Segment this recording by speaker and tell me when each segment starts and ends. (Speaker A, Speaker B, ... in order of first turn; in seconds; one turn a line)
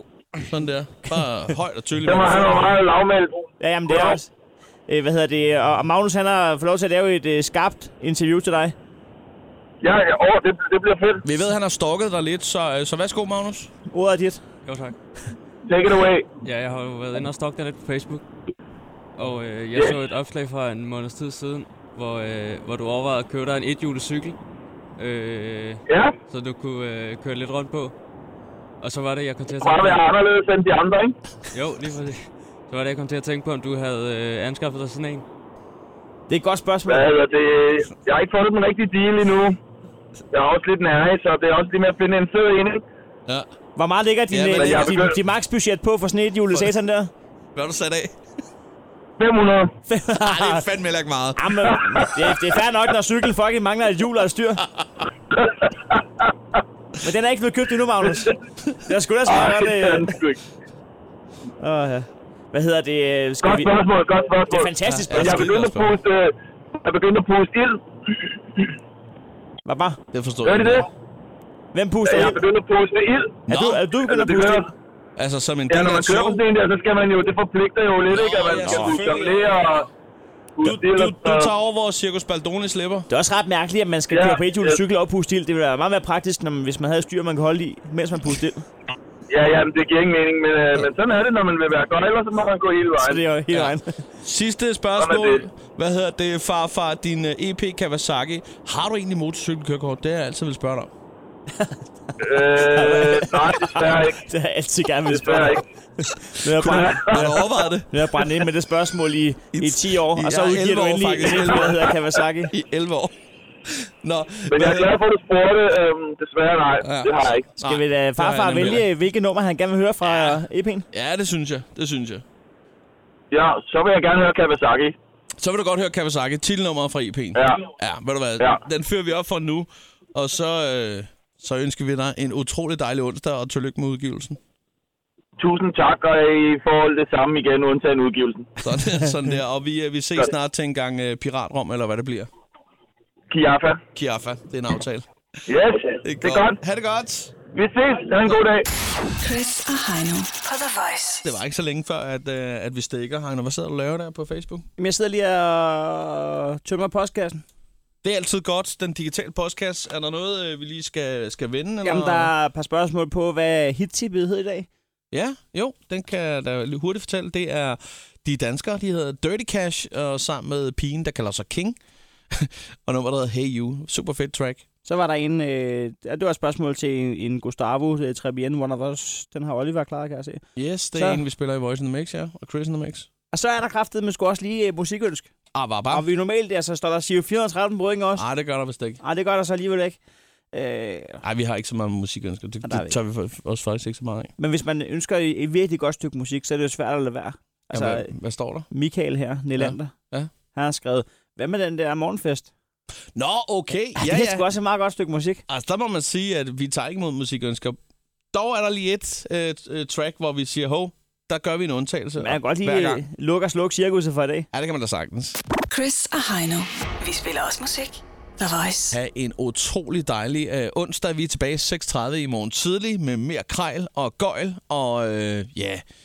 Speaker A: 0.4-2.7
Speaker B: 2.0-4.2
Speaker C: 3.6-4.3
Speaker C: 4.9-8.7
Speaker B: 9.8-11.2
Speaker A: 11.2-13.7
Speaker C: 13.9-14.4
Speaker D: 14.6-14.9
Speaker B: 15.7-16.3
Speaker D: 16.4-18.2
Speaker D: 19.2-24.4
Speaker D: 25.0-27.9
Speaker B: 25.9-26.1
Speaker D: 28.8-30.0
Speaker B: 29.6-31.1
Speaker D: 31.5-35.2
Speaker C: 36.3-37.1
Speaker B: 36.9-39.6
Speaker B: 40.3-42.8
Speaker C: 43.8-47.1
Speaker A: 44.3-45.1
Speaker B: 44.5-45.1
Speaker A: 47.5-48.2
Speaker B: 49.2-49.7
Speaker C: 49.9-50.7
Speaker A: 50.2-51.5
Speaker C: 51.4-54.6
Speaker A: 54.7-55.0
Speaker B: 55.3-56.0
Speaker C: 57.0-58.3
Speaker C: 58.9-60.1
Speaker B: 59.2-60.4
Speaker C: 61.6-63.8
Speaker B: 63.4-68.7
Speaker C: 64.5-65.5
Speaker A: 64.8-66.0
Speaker C: 69.7-70.0
Speaker A: 70.1-70.9
Speaker B: 70.4-70.9
Speaker C: 71.7-72.4
Speaker B: 72.0-73.4
Speaker A: 73.5-73.8
Speaker C: 73.5-74.7
Speaker B: 74.0-74.7
Speaker A: 75.2-76.4
Speaker B: 75.7-79.9
Speaker A: 78.1-79.9
Speaker C: 78.6-79.0
Speaker B: 80.5-81.5
Speaker A: 80.6-83.1
Speaker C: 83.1-88.7
Speaker B: 84.1-84.8
Speaker B: 89.3-93.2
Speaker C: 93.0-94.0
Speaker A: 93.5-100.9
Speaker B: 95.0-95.4
Speaker B: 102.2-104.2
Speaker C: 102.3-112.5
Speaker B: 105.1-105.6
Speaker A: 106.6-108.2
Speaker B: 106.6-107.3
Speaker A: 109.5-112.0
Speaker A: 112.5-113.1
Speaker A: 113.7-115.0
Speaker B: 114.5-117.5
Speaker A: 116.8-118.9
Speaker C: 117.6-120.8
Speaker A: 120.0-120.4
Speaker A: 120.9-122.2
Speaker B: 123.3-125.0
Speaker A: 125.4-134.4
Speaker B: 127.3-127.7
Speaker B: 135.4-138.6
Speaker A: 138.6-142.3
Speaker B: 143.3-143.8
Speaker A: 143.9-145.1
Speaker B: 145.5-146.6
Speaker A: 146.0-147.3
Speaker B: 147.5-148.7
Speaker E: 149.2-151.2
Speaker A: 151.2-154.6
Speaker C: 154.8-157.4
Speaker A: 158.0-162.3
Speaker C: 161.8-164.7
Speaker A: 165.1-171.8
Speaker A: 172.3-174.6
Speaker C: 174.8-180.4
Speaker A: 180.6-183.1
Speaker C: 180.9-181.2
Speaker C: 183.3-185.3
Speaker A: 185.5-186.0
Speaker C: 185.9-188.2
Speaker A: 188.1-189.0
Speaker C: 189.0-190.0
Speaker C: 190.5-191.2
Speaker A: 191.2-194.3
Speaker C: 192.6-193.0
Speaker C: 194.4-198.1
Speaker A: 197.7-198.7
Speaker C: 198.7-199.9
Speaker A: 199.6-200.3
Speaker C: 200.5-202.5
Speaker A: 203.1-204.5
Speaker C: 203.9-205.4
Speaker A: 205.5-207.8
Speaker A: 208.3-213.0
Speaker C: 212.2-214.5
Speaker A: 214.5-215.4
Speaker E: 215.7-219.0
Speaker A: 218.9-225.8